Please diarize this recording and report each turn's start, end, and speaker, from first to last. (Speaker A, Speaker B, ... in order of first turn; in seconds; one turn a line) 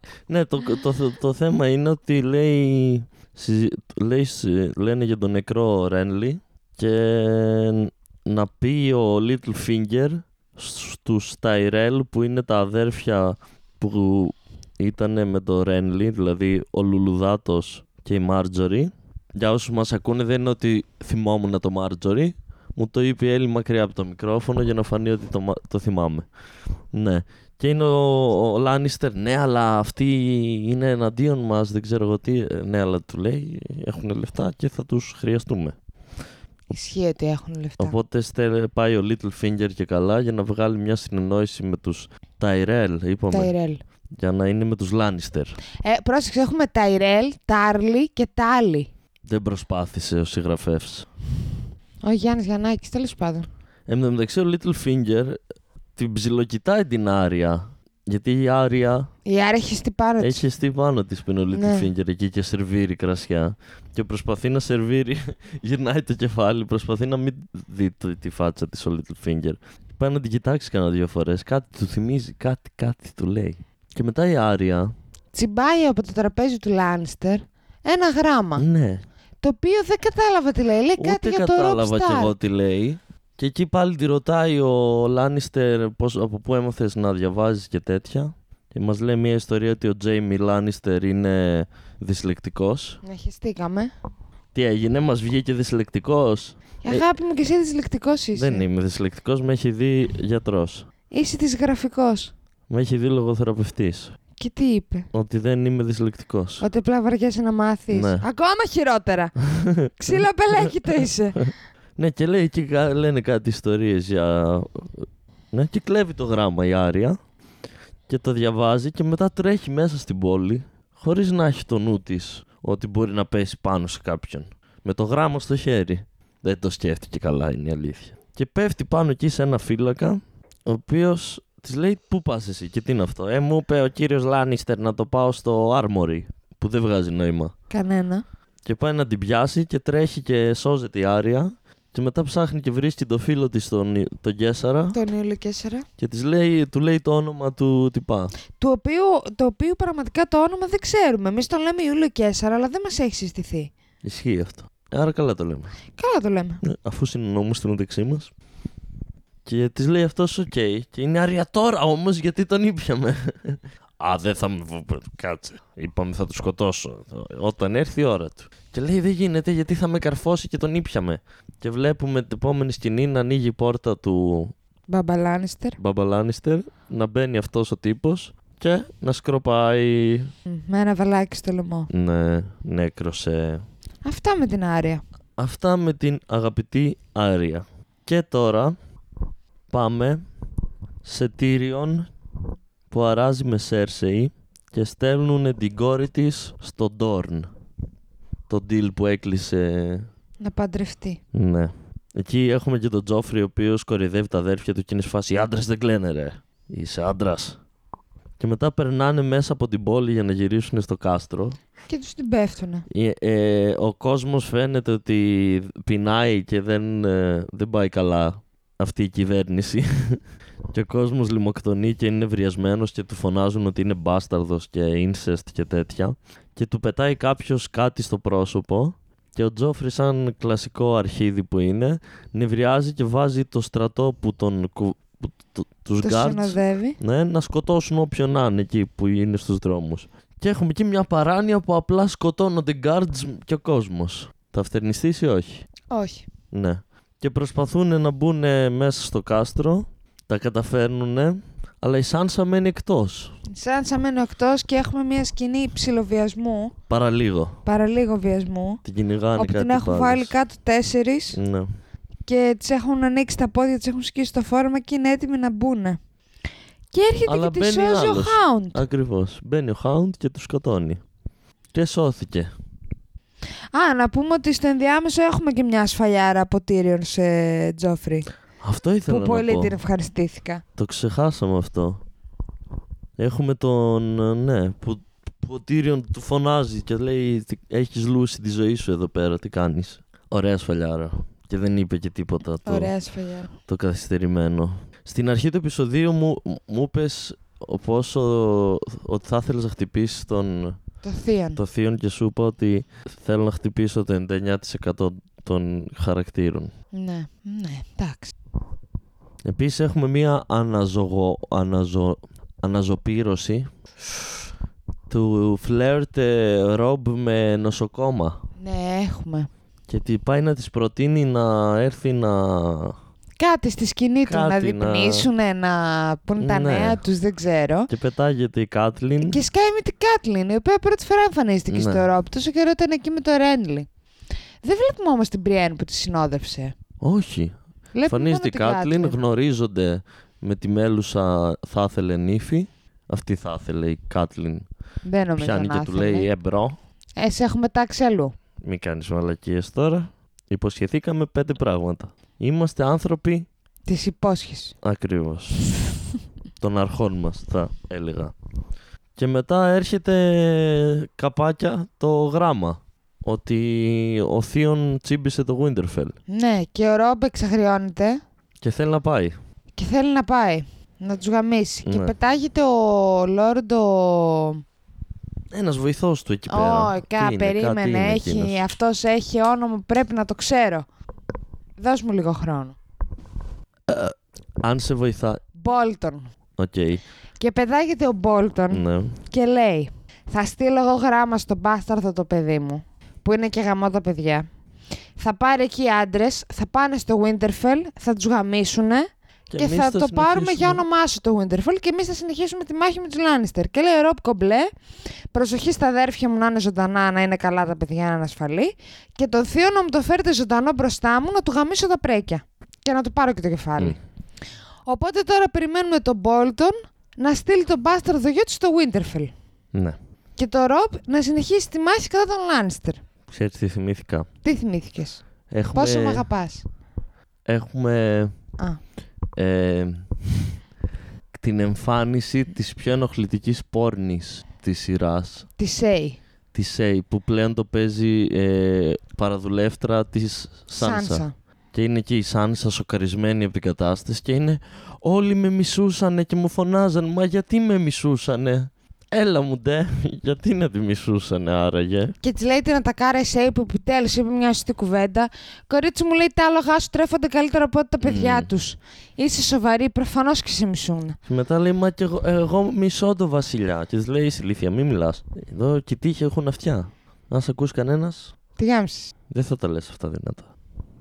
Speaker A: 0.3-26.2
Speaker A: 26.9-35.7
Speaker B: 36.7-38.0
Speaker A: 37.8-43.5
Speaker B: 43.3-43.8
Speaker A: 44.2-45.6
Speaker B: 45.8-48.9
Speaker A: 49.3-51.1
Speaker B: 52.0-53.5
Speaker A: 53.9-55.4
Speaker A: 56.0-59.1
Speaker B: 59.2-60.5
Speaker A: 60.2-74.9
Speaker B: 61.5-61.9
Speaker B: 75.3-78.6
Speaker A: 78.6-79.0
Speaker B: 79.4-82.4
Speaker A: 81.0-93.0
Speaker B: 93.0-93.9
Speaker A: 94.5-97.0
Speaker B: 96.8-98.7
Speaker A: 98.3-100.8
Speaker B: 101.1-102.3
Speaker A: 102.7-104.1
Speaker B: 104.4-105.1
Speaker A: 105.1-106.6
Speaker B: 106.6-109.3
Speaker A: 107.9-108.2
Speaker A: 109.4-110.2
Speaker B: 110.0-111.4
Speaker A: 112.0-117.2
Speaker A: 118.1-137.5
Speaker B: 137.7-138.2
Speaker A: 138.7-145.0
Speaker B: 144.9-145.8
Speaker A: 146.0-148.3
Speaker B: 148.6-153.7
Speaker A: 154.0-155.7
Speaker B: 155.9-156.6
Speaker A: 156.6-158.3
Speaker A: 159.4-174.5
Speaker B: 174.9-175.8
Speaker A: 175.8-180.3
Speaker B: 180.5-181.9
Speaker A: 181.9-183.6
Speaker B: 184.0-185.0
Speaker A: 185.4-188.8
Speaker A: 189.7-190.2
Speaker A: 191.0-192.1
Speaker A: 192.9-197.5
Speaker A: 198.5-200.1
Speaker B: 200.4-201.2
Speaker A: 201.3-207.6
Speaker A: 208.4-211.6
Speaker B: 211.9-212.9
Speaker A: 212.9-220.2
Speaker A: 220.7-245.7
Speaker B: 236.0-237.0
Speaker B: 245.9-246.2
Speaker A: 246.5-253.3
Speaker B: 253.5-256.7
Speaker A: 256.9-257.6
Speaker B: 257.6-258.8
Speaker A: 258.8-260.3
Speaker B: 259.4-261.4
Speaker A: 261.3-261.7
Speaker B: 262.2-266.0
Speaker B: 266.9-268.8
Speaker A: 267.2-271.0
Speaker A: 271.7-272.5
Speaker B: 273.7-278.3
Speaker A: 278.6-279.8
Speaker B: 279.1-280.6
Speaker A: 280.8-282.0
Speaker A: 283.2-292.9
Speaker B: 292.6-293.5
Speaker A: 293.7-300.8
Speaker B: 301.0-301.6
Speaker A: 301.6-306.7
Speaker B: 306.9-308.3
Speaker A: 309.4-313.7
Speaker A: 315.1-318.4
Speaker B: 318.6-319.5
Speaker A: 319.9-322.9
Speaker B: 323.4-327.9
Speaker A: 324.2-325.3
Speaker A: 326.4-327.0
Speaker A: 327.9-329.4
Speaker B: 329.2-333.9
Speaker A: 331.7-332.1
Speaker B: 334.6-336.7
Speaker A: 337.0-337.5
Speaker B: 337.9-339.2
Speaker A: 338.1-344.6
Speaker B: 345.0-346.3
Speaker A: 345.4-346.8
Speaker B: 347.2-348.3
Speaker A: 348.6-353.5
Speaker B: 353.9-354.7
Speaker A: 354.8-355.8
Speaker A: 356.6-358.3
Speaker A: 359.2-366.1
Speaker B: 366.3-368.2
Speaker A: 368.6-369.4
Speaker B: 369.8-374.6
Speaker A: 371.8-372.1
Speaker A: 375.5-378.6
Speaker B: 376.5-380.8
Speaker B: 381.8-382.8
Speaker A: 383.9-385.4
Speaker B: 385.5-386.3
Speaker A: 386.6-387.0
Speaker B: 387.4-394.4
Speaker A: 388.7-389.2
Speaker B: 395.2-404.7
Speaker A: 399.5-400.8
Speaker B: 405.3-414.0
Speaker B: 414.9-419.3
Speaker B: 420.4-423.0
Speaker A: 423.3-424.3
Speaker B: 424.4-425.2
Speaker A: 425.5-426.2
Speaker B: 425.7-426.6
Speaker A: 427.5-428.3
Speaker A: 429.4-430.5
Speaker A: 431.3-435.5
Speaker B: 435.6-436.2
Speaker A: 436.5-452.1
Speaker B: 440.8-441.3
Speaker B: 452.2-461.2
Speaker A: 458.0-458.5
Speaker A: 461.2-468.3
Speaker B: 468.6-469.1
Speaker A: 469.3-470.5